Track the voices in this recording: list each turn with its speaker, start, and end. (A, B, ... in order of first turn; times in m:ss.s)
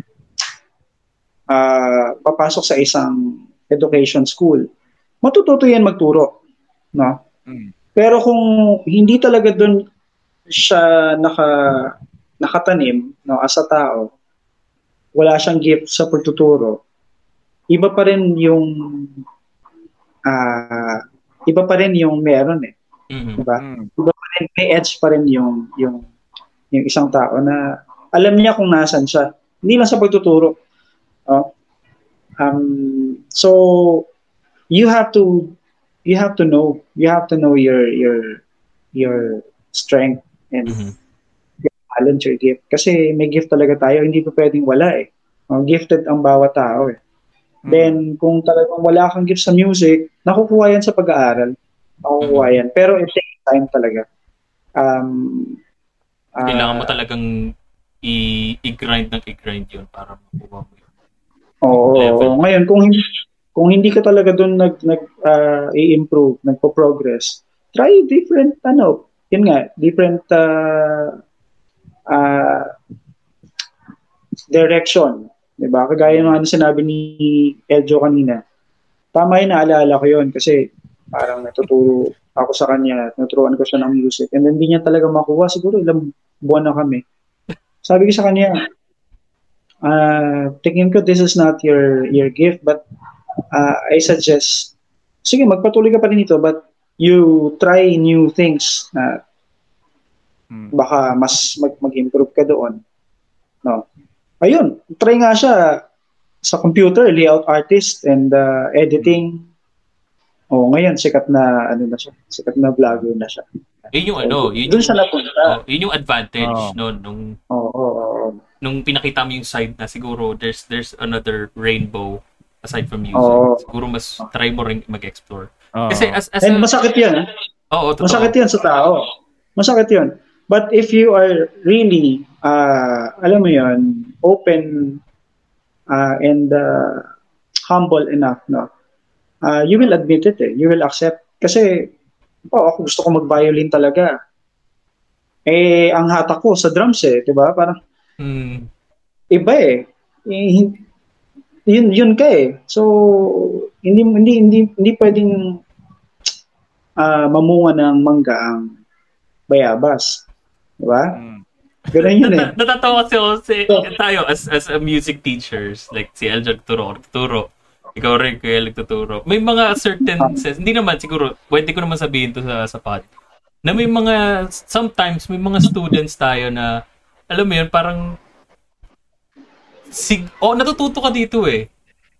0:01.5-0:04.6 A
0:05.2-0:06.3 A
0:08.0-0:09.8 A
0:10.5-0:14.1 A
0:15.1-0:16.8 A
0:17.7-0:19.2 A
0:20.3-0:22.7 A
0:23.1-0:23.4 B
0:23.4-0:26.0 A
0:23.6-0:23.9 C
0:26.7-0:30.6 A
0:32.4-0:34.0 A
0:34.7-0:35.5 A
0:36.0-0:38.4 A
0:39.0-0:40.8 A
0:40.7-0:40.9 B
0:41.6-0:47.0 A
0:47.6-0:48.0 C
0:47.7-0:51.5 A
0:52.0-0:54.0 A
0:52.2-0:52.5 B
0:54.8-0:55.6 A
0:56.4-0:56.9 A
0:56.4-0:57.2 B
0:58.0-1:00.8 B
1:01.6-1:11.2 A
1:01.9-1:02.4 B
1:12.1-1:12.7 A
1:14.5-1:18.4 A
1:16.0-1:16.3 C
1:19.1-1:20.6 A
1:21.1-1:27.0 A
1:27.8-1:28.6 A
1:29.8-1:32.8 A
1:33.5-1:34.7 A
1:35.2-1:39.2 A
1:40.7-1:42.8 A
1:44.4-1:45.8 A
1:46.5-1:49.4 A
1:50.5-1:53.4 A
1:53.9-1:57.3 B
1:54.2-1:55.6 A
1:56.4-1:56.8 C
1:57.5-1:58.4 A
1:58.6-2:06.7 B
2:03.2-2:03.6 A
2:05.8-2:06.2 C
2:06.4-2:07.3 A
2:07.7-2:08.3 B
2:08.0-2:15.0 A
2:15.9-2:17.1 A
2:17.7-2:18.7 A
2:19.4-2:21.9 A
2:22.5-2:24.1 A
2:25.5-2:27.8 A
2:28.2-2:28.7 B
2:29.3-2:30.8 A
2:31.7-2:35.6 A
2:37.0-2:38.7 A
2:39.5-2:40.2 A
2:40.8-2:41.1 A
2:41.1-2:41.4 C
2:41.9-2:42.5 A
2:41.9-2:53.1 B
2:53.6-2:56.8 B
2:57.3-2:58.1 B
2:59.9-3:01.6 B